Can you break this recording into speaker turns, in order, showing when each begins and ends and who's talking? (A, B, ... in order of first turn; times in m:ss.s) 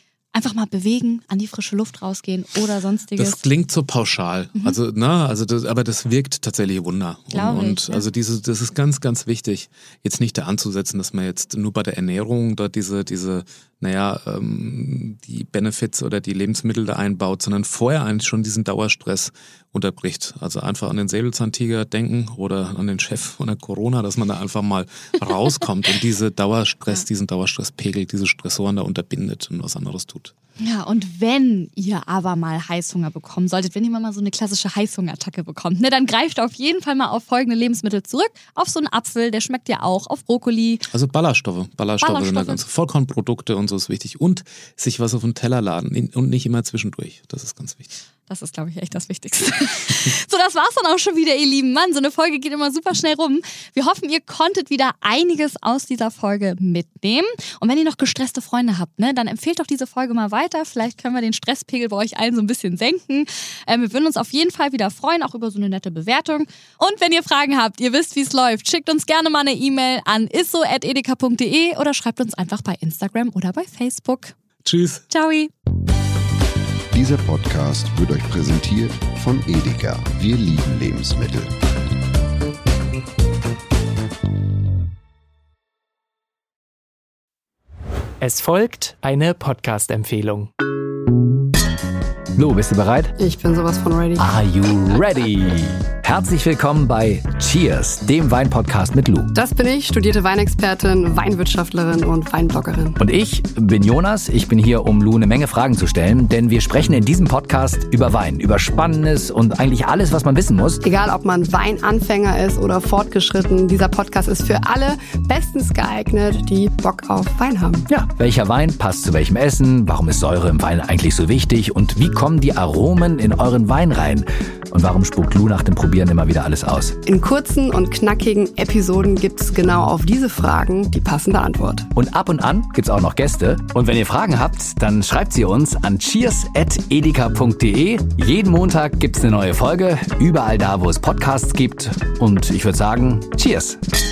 0:00.3-0:03.4 A
0:03.2-0:30.3 B
0:07.3-0:08.0 A
0:30.6-0:40.9 A
0:40.9-0:47.9 B
0:42.0-0:42.6 A
0:48.3-1:14.4 A
1:14.6-1:15.0 B
1:15.1-1:15.5 A
1:16.9-1:21.5 C
1:28.2-1:30.5 D
1:32.3-1:33.1 E
1:33.2-1:34.3 F
1:34.2-1:39.3 E
1:39.4-1:43.0 F
1:43.0-1:50.8 E
1:50.8-1:57.8 F
1:57.9-2:07.0 E
2:07.1-2:11.9 F
2:12.0-2:23.8 E